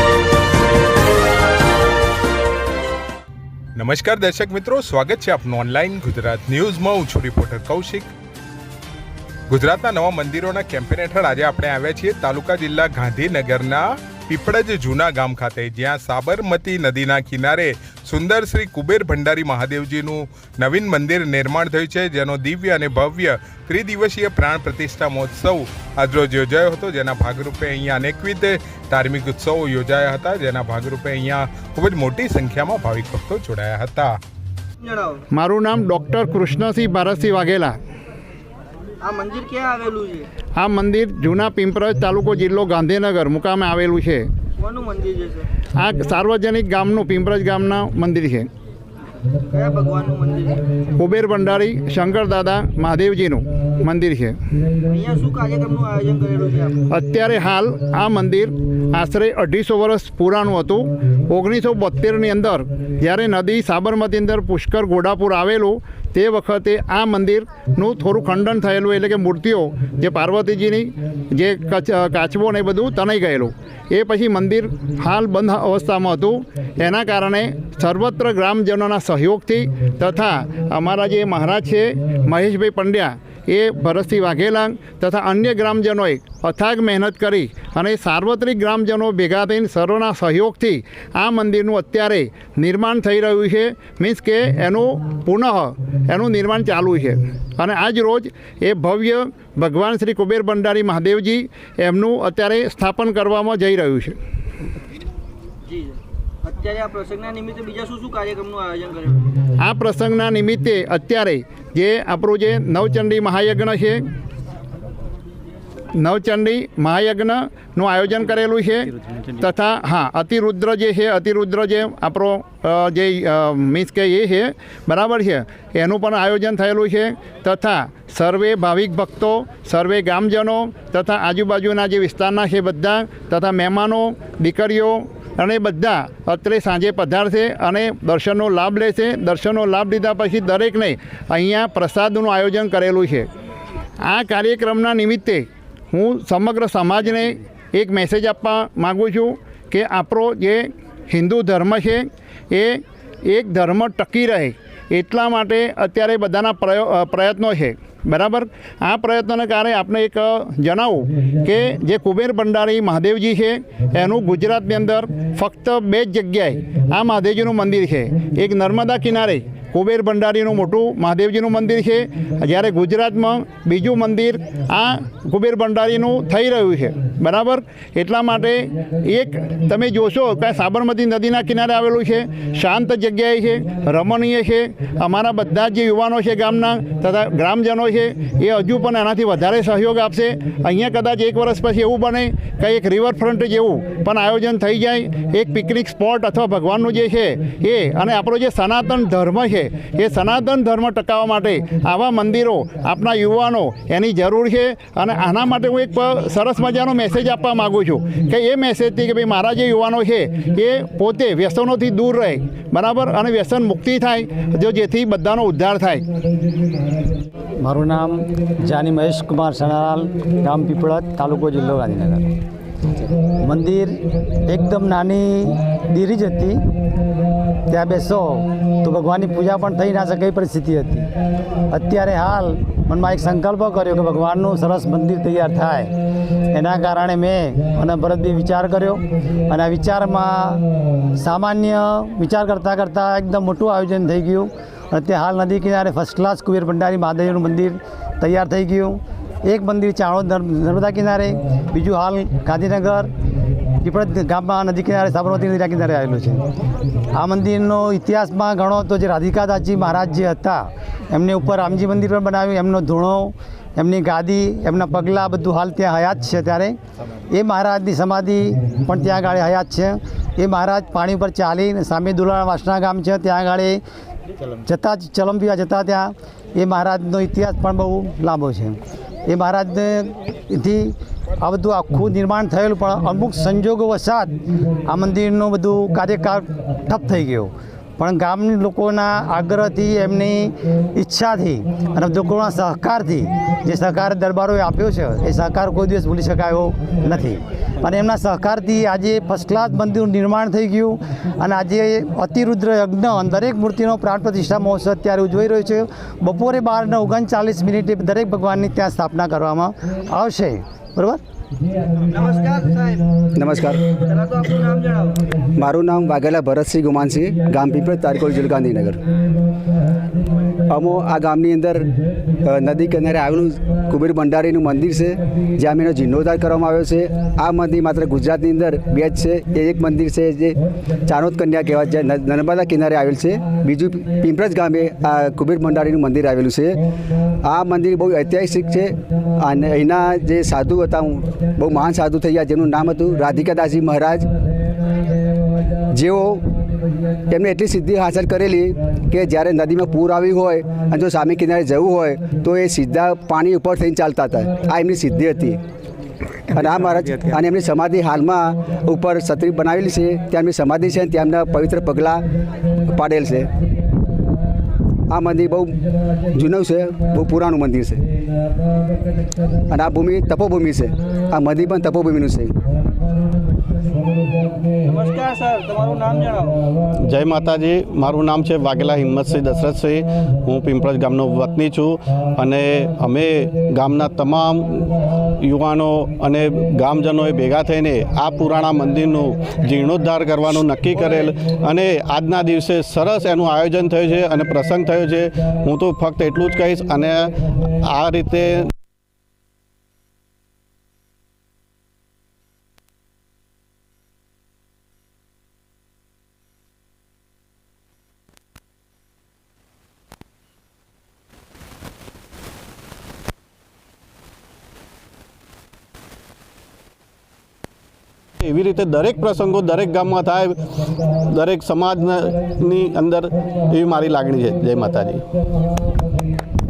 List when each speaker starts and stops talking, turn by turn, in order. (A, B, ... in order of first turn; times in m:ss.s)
0:03.8-0:08.1 A
0:09.5-0:34.2 A
0:34.8-0:35.2 B
0:35.3-0:37.8 C
0:39.0-0:40.3 B
0:40.6-0:44.3 C
0:44.6-0:45.5 B
0:45.7-0:48.5 C
0:49.5-0:50.6 B
0:51.0-0:54.4 C
0:54.8-0:56.8 B
0:56.9-1:44.2 C
1:45.7-1:49.2 B
1:49.6-1:54.1 C
1:56.0-2:23.3 C
2:24.0-3:36.0 C
3:37.6-3:42.3 D
3:43.4-3:46.6 D
3:47.7-3:51.1 D
3:51.7-3:56.0 D
3:56.5-4:13.1 D
4:13.8-4:16.4 D
4:17.1-4:26.8 D
4:27.3-4:33.8 D
4:34.6-5:11.2 D
5:12.0-5:13.0 B
5:13.3-5:13.9 E
5:14.0-5:15.2 B
5:15.5-5:19.0 E
5:20.7-5:21.9 E
5:22.4-5:36.8 E
5:37.4-5:44.3 E
5:45.9-5:46.4 E
5:47.3-5:55.6 E
5:56.5-6:02.2 E
6:02.8-6:03.5 E
6:05.1-6:05.8 E
6:06.3-6:08.0 E
6:09.7-6:12.5 E
6:14.8-6:16.6 B
6:17.0-6:38.7 F
6:58.4-7:05.2 F